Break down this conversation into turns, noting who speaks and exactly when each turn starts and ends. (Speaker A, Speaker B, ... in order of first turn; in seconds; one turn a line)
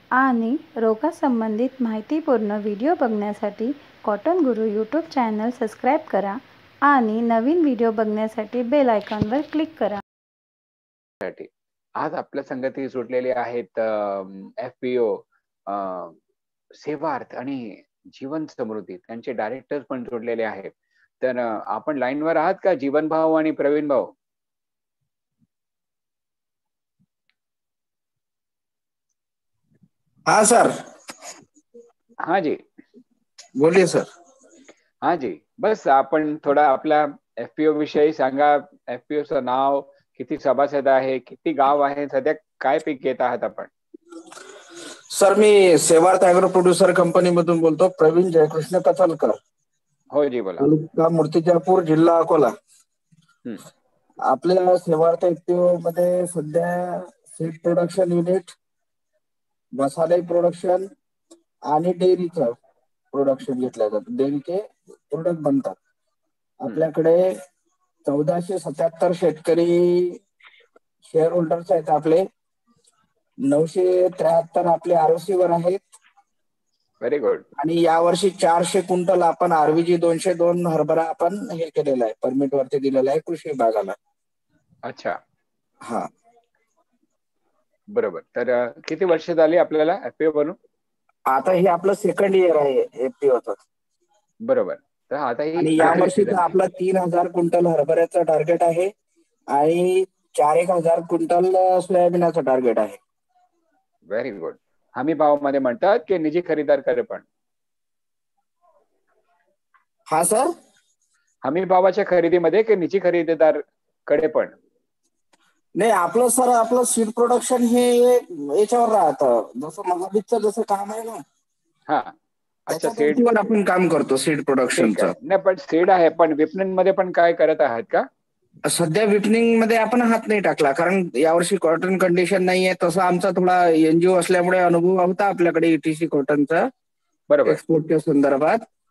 Speaker A: 1.0-3.6
Speaker A: 4.2-6.3
Speaker A: 7.0-9.9
Speaker B: 11.2-16.2
Speaker B: 16.8-24.1
Speaker C: 30.3-30.7
Speaker B: 32.2-32.6
Speaker C: 33.6-34.1
Speaker B: 35.0-43.7
Speaker C: 45.1-49.4
Speaker B: 50.1-50.7
Speaker C: 50.6-52.5
Speaker C: 54.3-58.5
Speaker C: 59.8-60.9
Speaker C: 61.7-62.6
Speaker C: 63.1-65.8
Speaker C: 66.6-67.3
Speaker C: 68.0-70.2
Speaker C: 71.1-72.2
Speaker C: 73.5-75.8
Speaker B: 77.0-77.5
Speaker C: 77.6-84.0
Speaker B: 84.8-85.2
Speaker C: 85.8-86.1
Speaker B: 87.9-90.6
Speaker C: 91.3-93.6
Speaker B: 94.4-96.5
Speaker C: 95.6-98.9
Speaker C: 99.5-103.0
Speaker B: 104.1-107.2
Speaker C: 110.1-110.5
Speaker B: 111.5-114.5
Speaker C: 115.8-121.2
Speaker B: 121.9-122.1
Speaker B: 122.7-123.5
Speaker C: 122.7-125.1
Speaker B: 124.8-128.1
Speaker C: 128.7-136.7
Speaker B: 137.3-137.6
Speaker C: 137.4-138.6